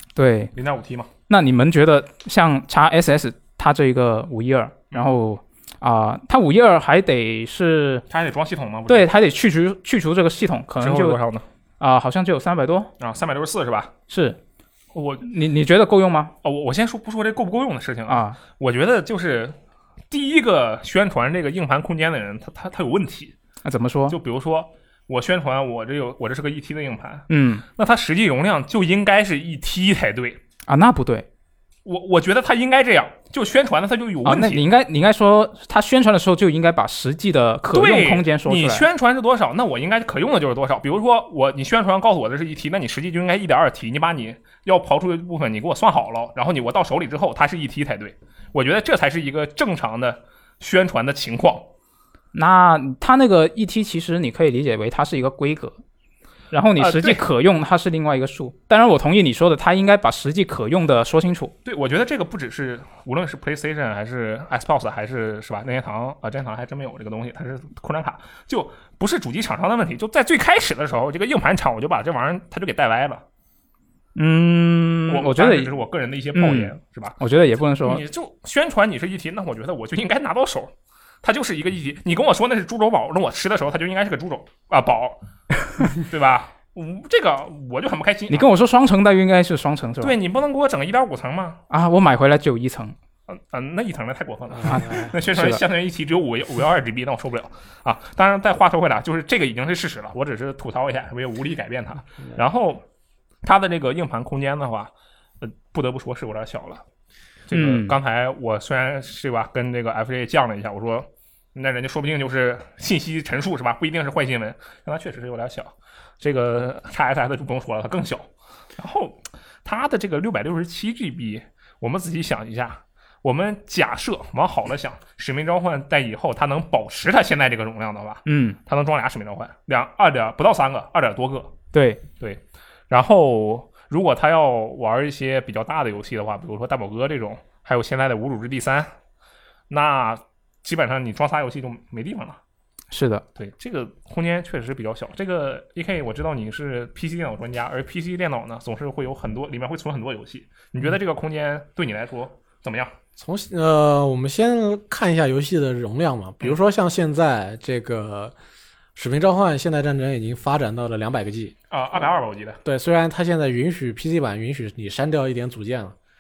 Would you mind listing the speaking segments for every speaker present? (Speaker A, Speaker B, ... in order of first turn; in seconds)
Speaker A: 0.1-0.5, 1.3-8.0, 8.9-11.2, 11.8-12.9, 14.1-14.4, 15.2-16.3, 18.1-18.4, 23.6-24.2, 27.3-27.6, 30.7-31.3, 34.2-38.8, 52.3-55.8, 56.5-61.5, 74.1-75.7, 76.3-78.0, 88.3-90.1, 91.7-92.9, 94.7-95.6, 107.5-108.0, 128.3-128.6, 131.7-132.0, 142.9-143.2
Speaker B: 0.5-1.1, 8.1-9.1, 10.8-11.4, 13.0-13.9, 14.9-15.3, 16.4-19.6, 20.1-23.3, 24.1-30.4, 31.8-34.6, 37.7-51.7, 56.8-57.2, 61.6-73.2, 75.1-77.2, 77.8-85.2, 85.8-88.5, 90.0-91.6, 93.3-102.8, 103.4-106.8, 107.5-131.6, 132.2-138.9, 139.7-142.4, 143.4-152.9, 161.7-162.6
Speaker C: 153.2-158.3, 158.9-161.5, 162.6-165.9